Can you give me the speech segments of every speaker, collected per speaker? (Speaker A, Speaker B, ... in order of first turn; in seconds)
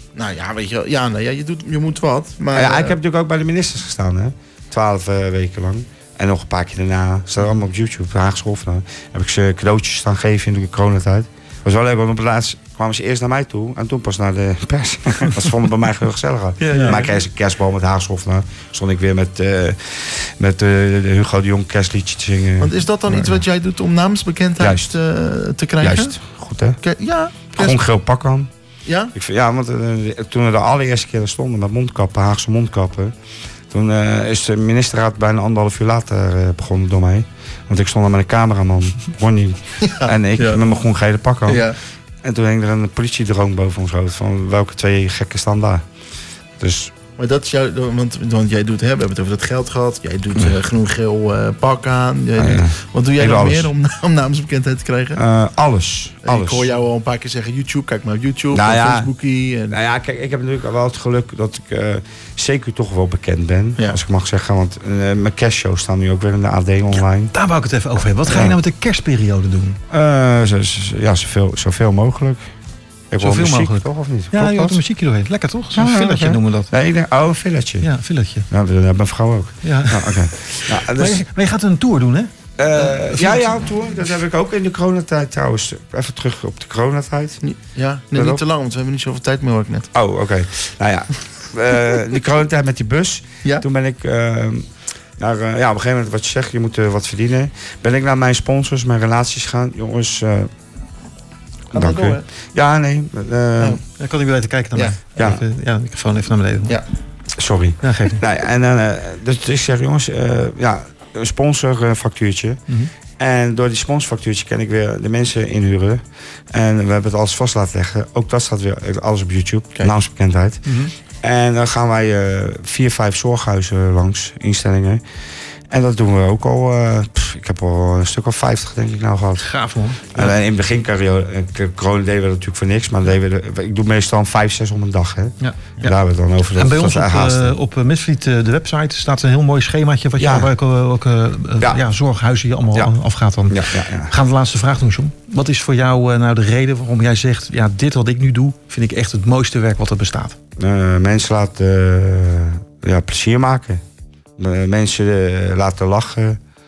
Speaker A: 0.1-3.0, 22.6-26.2, 26.8-27.8, 28.8-29.1, 39.9-40.6, 41.5-41.8, 47.2-55.2, 56.2-59.8, 87.4-89.9, 101.7-102.2
Speaker B: 2.5-23.4, 24.6-25.0, 25.8-26.8, 27.5-28.5, 29.1-33.1, 33.7-45.8, 46.6-46.9, 52.4-53.7, 55.1-56.7, 58.5-59.1, 59.7-67.3, 68.3-68.6, 69.9-72.4, 73.1-74.8, 75.7-77.9, 78.5-81.2, 82.6-87.4, 88.1-88.4, 89.9-94.6, 95.2-100.5, 101.7-103.8, 105.2-105.4, 107.4-112.6, 113.2-116.0, 116.5-120.6, 121.2-125.0, 125.7-129.5, 130.1-137.6, 140.2-140.5, 143.5-144.1, 150.6-153.8, 154.4-156.4
Speaker C: 16.6-17.1, 66.9-69.8, 73.2-76.7, 77.8-78.5, 79.6-83.5, 104.0-106.8, 107.8-108.2, 120.7-120.9, 129.4-130.3, 136.6-150.3